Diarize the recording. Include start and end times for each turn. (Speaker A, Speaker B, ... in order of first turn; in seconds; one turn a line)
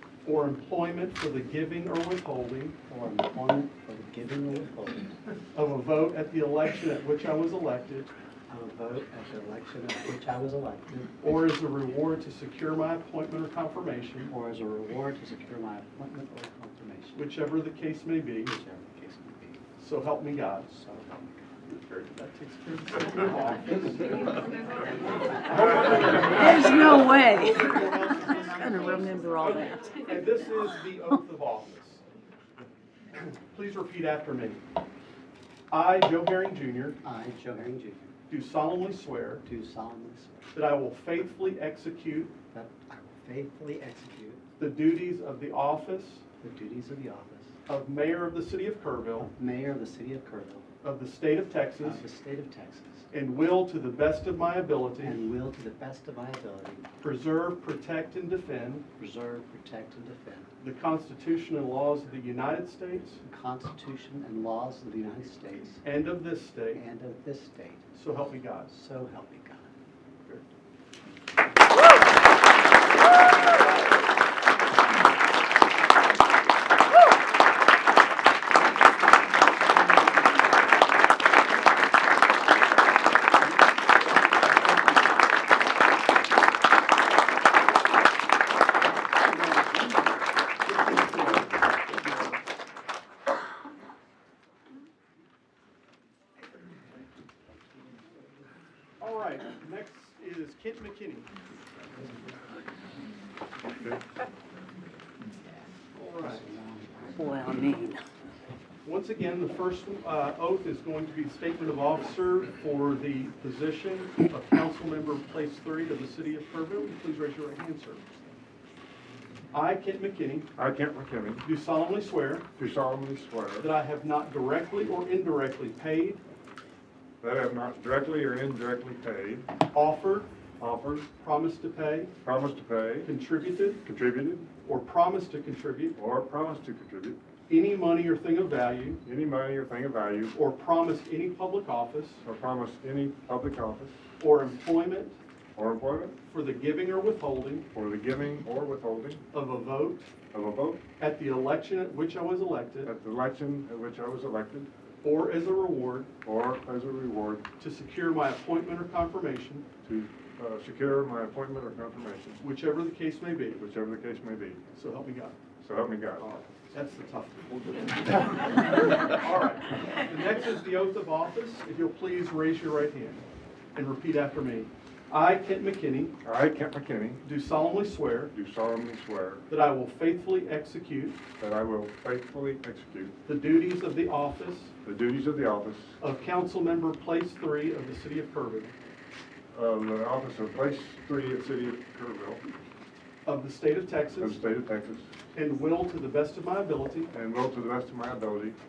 Speaker A: 0.2-2.7
Speaker B: 2.9-5.2
Speaker A: 5.5-8.1
Speaker B: 8.5-11.2
Speaker A: 11.2-14.3
Speaker B: 14.3-17.3
Speaker A: 17.1-18.5
Speaker B: 18.4-19.6
Speaker A: 19.8-20.7
Speaker B: 20.7-21.5
Speaker A: 21.7-24.2
Speaker A: 25.4-32.0
Speaker C: 26.4-30.0
Speaker A: 33.2-34.6
Speaker A: 35.7-37.0
Speaker B: 37.0-38.1
Speaker A: 38.3-39.4
Speaker B: 39.4-40.5
Speaker A: 40.5-42.4
Speaker B: 42.5-44.4
Speaker A: 44.6-46.2
Speaker B: 46.4-47.5
Speaker A: 47.7-49.3
Speaker B: 49.2-50.7
Speaker A: 50.8-52.0
Speaker B: 51.8-53.1
Speaker A: 53.1-55.2
Speaker B: 55.0-56.9
Speaker A: 57.0-58.8
Speaker B: 59.0-60.5
Speaker A: 60.6-63.2
Speaker B: 63.2-65.8
Speaker A: 65.8-66.8
Speaker B: 66.7-67.8
Speaker A: 67.9-68.7
Speaker B: 68.7-69.7
Speaker A: 89.3-89.7
Speaker A: 90.8-91.4
Speaker A: 99.0-101.3
Speaker D: 103.7-104.0
Speaker A: 105.9-106.5
Speaker B: 106.2-107.4
Speaker C: 107.2-108.0
Speaker A: 108.8-118.0
Speaker A: 119.5-120.5
Speaker D: 120.5-121.5
Speaker A: 121.4-122.5
Speaker D: 122.6-123.7
Speaker A: 123.6-126.2
Speaker D: 127.2-129.5
Speaker A: 129.7-130.3
Speaker D: 130.6-131.1
Speaker A: 131.2-132.1
Speaker D: 132.2-133.1
Speaker A: 133.0-133.8
Speaker D: 133.8-134.5
Speaker A: 134.6-135.9
Speaker D: 136.0-137.2
Speaker A: 137.5-139.0
Speaker D: 139.0-140.3
Speaker A: 140.3-142.2
Speaker D: 142.2-144.0
Speaker A: 144.2-145.2
Speaker D: 145.6-146.2
Speaker A: 146.3-147.7
Speaker D: 147.7-149.2
Speaker A: 149.3-150.1
Speaker D: 150.3-150.8
Speaker A: 151.0-152.9
Speaker D: 152.8-154.7
Speaker A: 155.0-156.1
Speaker D: 156.2-157.5
Speaker A: 157.6-159.7
Speaker D: 159.8-162.4
Speaker A: 162.4-163.6
Speaker D: 163.6-164.6
Speaker A: 164.7-165.4
Speaker D: 165.6-166.4
Speaker A: 166.2-176.1
Speaker D: 176.2-177.2
Speaker A: 177.2-178.3
Speaker D: 178.3-179.4
Speaker A: 179.5-181.2
Speaker D: 181.4-183.1
Speaker A: 183.2-184.7
Speaker D: 184.8-186.0
Speaker A: 186.0-188.8
Speaker D: 189.5-192.4
Speaker A: 193.2-194.4
Speaker D: 194.2-195.1
Speaker A: 195.3-197.1
Speaker D: 197.1-198.6